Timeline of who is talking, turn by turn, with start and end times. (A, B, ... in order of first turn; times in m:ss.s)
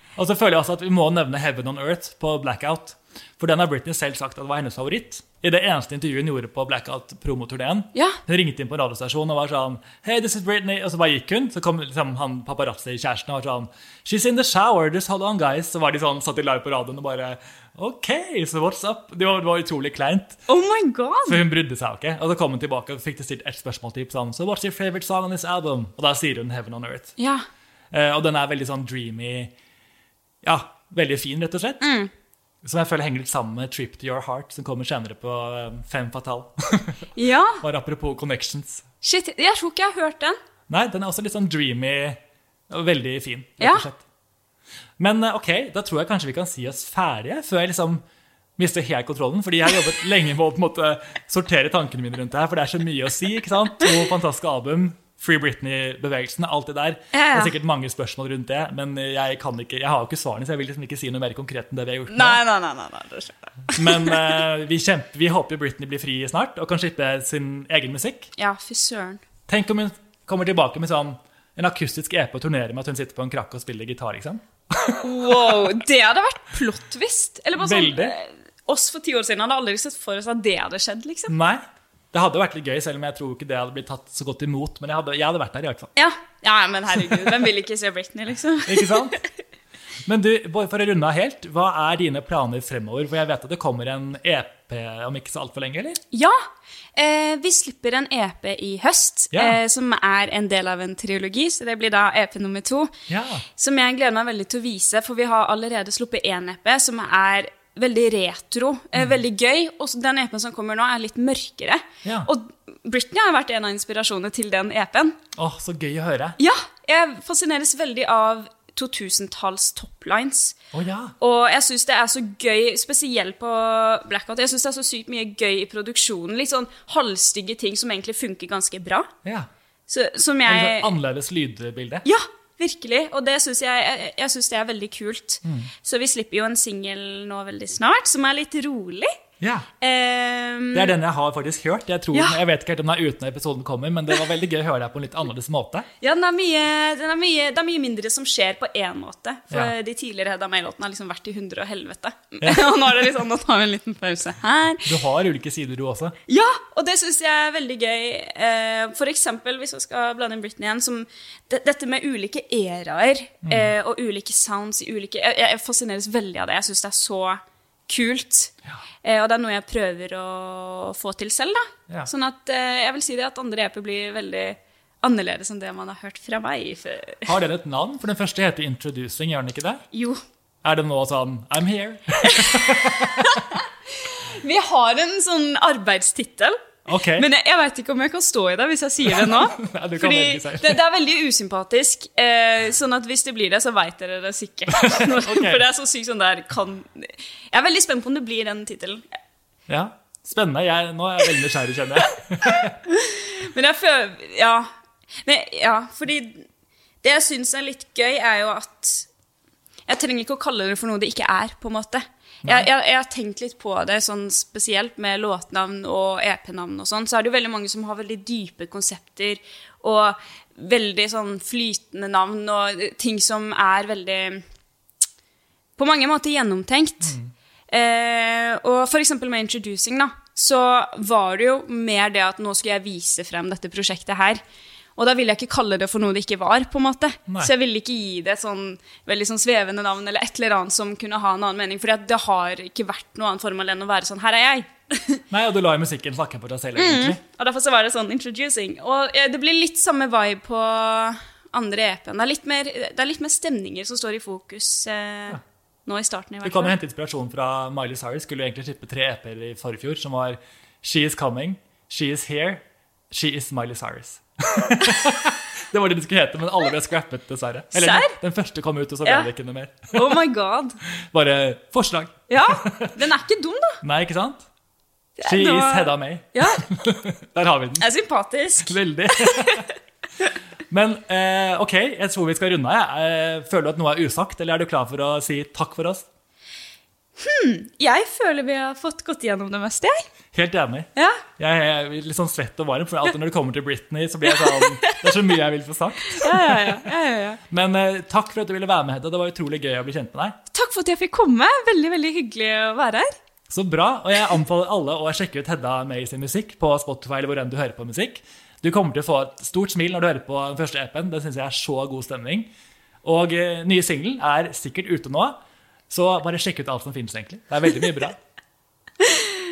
0:00.2-0:20.5 A
0:07.9-0:08.2 B
0:20.5-0:21.4 B
0:21.3-0:27.2 A
0:27.2-0:27.4 B
0:27.9-0:29.5 A
0:30.4-0:31.8 A
0:31.8-0:32.1 B
0:32.6-0:38.8 A
0:37.2-0:37.6 B
0:39.0-0:40.4 B
0:40.7-0:44.0 A
0:43.6-0:43.8 B
0:45.0-0:48.0 A
0:48.6-1:02.4 A
0:57.1-0:57.5 B
1:02.1-1:04.4 B
1:03.7-1:08.3 A
1:08.4-1:09.2 B
1:09.5-1:15.8 A
1:15.0-1:21.3 B
1:17.6-1:18.2 A
1:21.3-1:25.9 A
1:26.0-1:29.2 B
1:28.7-1:29.2 A
1:30.0-1:36.0 A
1:36.1-1:36.4 B
1:37.0-1:42.9 B
1:39.3-1:39.6 A
1:43.1-1:43.4 A
1:43.6-1:55.2 B
1:52.0-1:52.3 A
1:55.4-1:56.4 A
1:56.4-2:00.6 B
2:00.7-2:01.2 A
2:01.2-2:09.1 B
2:09.2-2:09.5 A
2:09.9-2:10.9 B
2:10.4-2:12.1 A
2:12.0-2:19.1 B
2:15.4-2:15.7 A
2:19.4-2:19.7 A
2:19.8-2:20.9 B
2:20.7-2:25.9 A
2:22.1-2:22.4 B
2:26.0-2:34.9 B
2:32.4-2:32.7 A
2:34.8-2:36.2 A
2:36.3-2:57.3 B
2:43.4-2:43.7 A
2:57.3-2:59.8 A
2:59.9-3:00.2 B
3:00.6-3:03.4 A
3:02.2-3:19.0 B
3:06.9-3:07.3 A
3:09.1-3:10.8 A
3:14.7-3:15.6 A
3:19.7-3:22.8 A
3:22.4-3:24.7 B
3:25.2-3:26.5 B
3:27.0-3:29.1 B
3:29.9-3:44.4 B
3:45.8-3:47.2 B
3:47.1-3:47.3 A
3:47.7-3:54.4 B
3:55.0-4:05.2 B
4:05.3-4:07.2 A
4:06.8-4:16.8 B
4:16.4-4:30.2 A
4:27.7-4:28.2 B
4:29.9-4:30.8 B
4:30.9-4:33.1 A
4:32.3-4:33.8 B
4:33.8-4:34.5 A
4:35.2-4:36.6 B
4:35.2-4:37.9 A
4:37.8-4:39.7 B
4:38.6-4:39.7 A
4:40.7-4:46.1 A
4:47.2-4:50.1 B
4:50.3-4:56.9 A
4:51.0-4:51.2 B
4:54.3-4:55.2 B
4:56.1-4:57.4 B
4:57.5-5:00.4 A
5:00.5-5:03.2 B
5:03.5-5:12.5 A
5:13.0-5:15.4 A
5:15.9-5:18.2 A
5:19.0-5:19.3 B